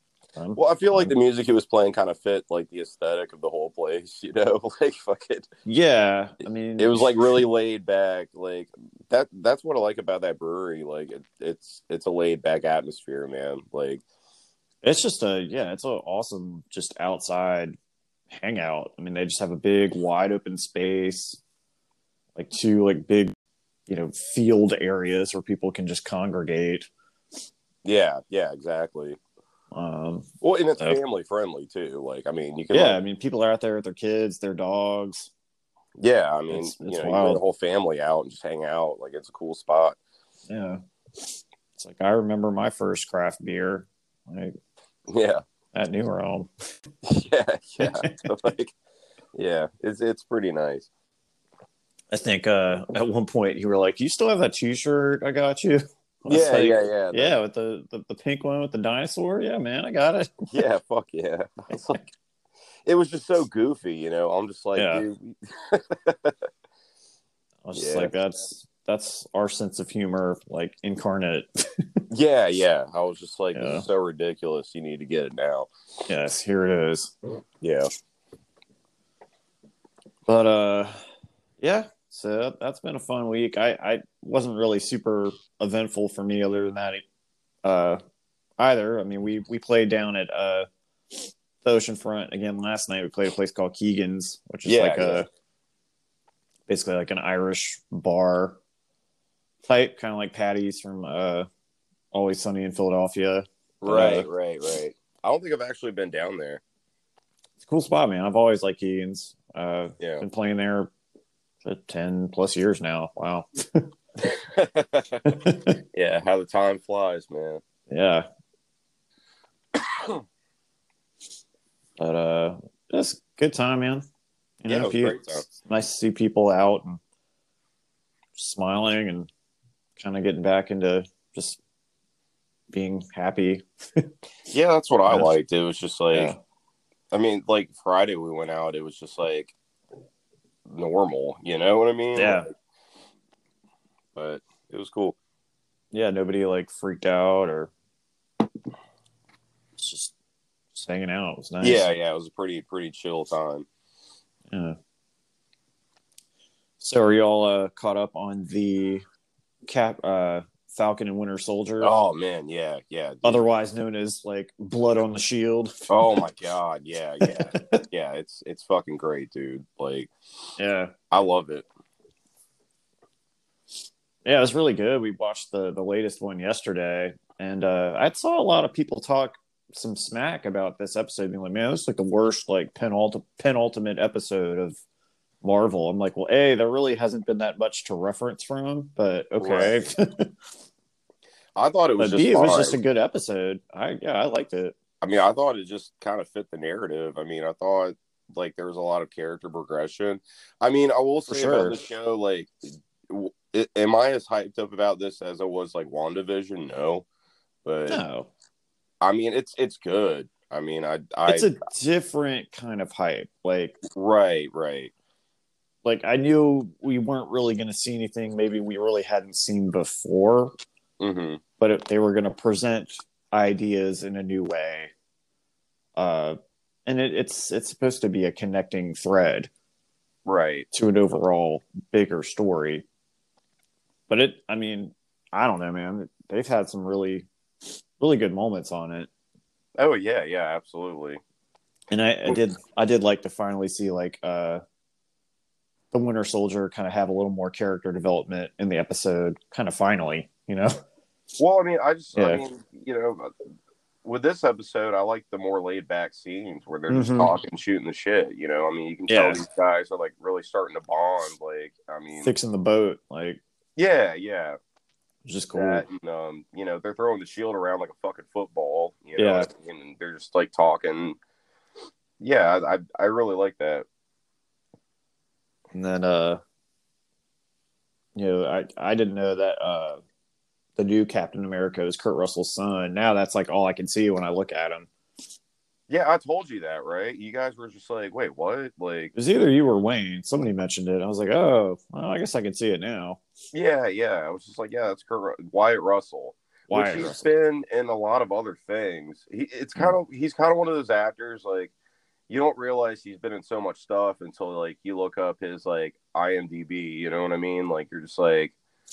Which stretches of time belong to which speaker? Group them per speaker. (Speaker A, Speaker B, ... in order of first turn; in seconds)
Speaker A: 0.4-1.1, 5.7-7.4, 14.8-17.8, 18.3-21.4, 22.4-23.3, 23.9-26.9, 29.7-31.0, 32.7-35.3, 36.5-37.4, 40.5-40.8, 41.8-44.5, 45.7-46.5, 47.8-48.2, 52.1-60.3, 61.7-62.1, 64.8-65.0, 67.6-72.0, 73.5-73.8, 76.1-77.1, 80.3-81.0, 81.6-87.0, 87.6-88.0, 88.6-90.7, 91.6-95.3, 96.7-98.6, 99.6-101.5, 102.1-104.3, 107.6-110.9, 111.6-113.9, 115.2-115.7, 117.9-118.3, 122.0-124.0, 124.6-127.0, 128.3-129.3, 130.0-131.6, 132.7-134.1, 135.1-135.3, 136.1-136.4, 142.2-142.5, 145.9-147.7, 149.8-150.1, 150.7-151.9, 154.5-154.8, 156.8-159.0, 159.7-161.9, 163.2-165.9, 167.2-167.8, 170.6-170.9, 174.2-184.8, 185.4-190.3, 192.0-194.7, 201.3-201.8, 207.9-208.3, 211.2-213.8, 215.8-220.5, 221.6-224.9, 225.9-229.5, 230.7-232.8, 234.1-237.3, 238.0-239.1, 241.9-244.6, 245.9-250.8, 252.2-252.4, 256.9-257.3, 259.1-259.4, 262.2-263.4, 265.2-265.8, 269.2-269.5, 275.7-276.4, 278.1-280.0, 280.8-284.9, 289.1-293.2, 296.7-297.3
Speaker B: 0.5-5.5, 6.8-14.0, 27.8-29.2, 30.4-33.0, 36.0-40.0, 45.1-45.4, 47.0-48.7, 49.3-50.9, 56.3-57.3, 60.5-62.0, 62.8-66.5, 67.7-68.1, 72.1-75.7, 77.6-77.9, 94.7-95.2, 103.8-106.6, 114.2-117.6, 119.7-120.2, 124.7-125.4, 134.5-136.3, 137.1-139.5, 140.7-142.5, 144.1-145.2, 151.6-153.7, 161.8-163.4, 165.9-170.1, 171.1-171.7, 189.4-189.8, 191.6-192.8, 195.0-202.5, 203.1-207.1, 207.6-208.0, 209.0-211.5, 213.9-214.9, 221.0-221.4, 230.2-230.7, 239.8-241.2, 251.4-253.3, 254.0-262.3, 263.8-264.6, 265.5-271.2, 272.2-273.9, 285.9-289.1, 293.5-301.7, 302.3-308.6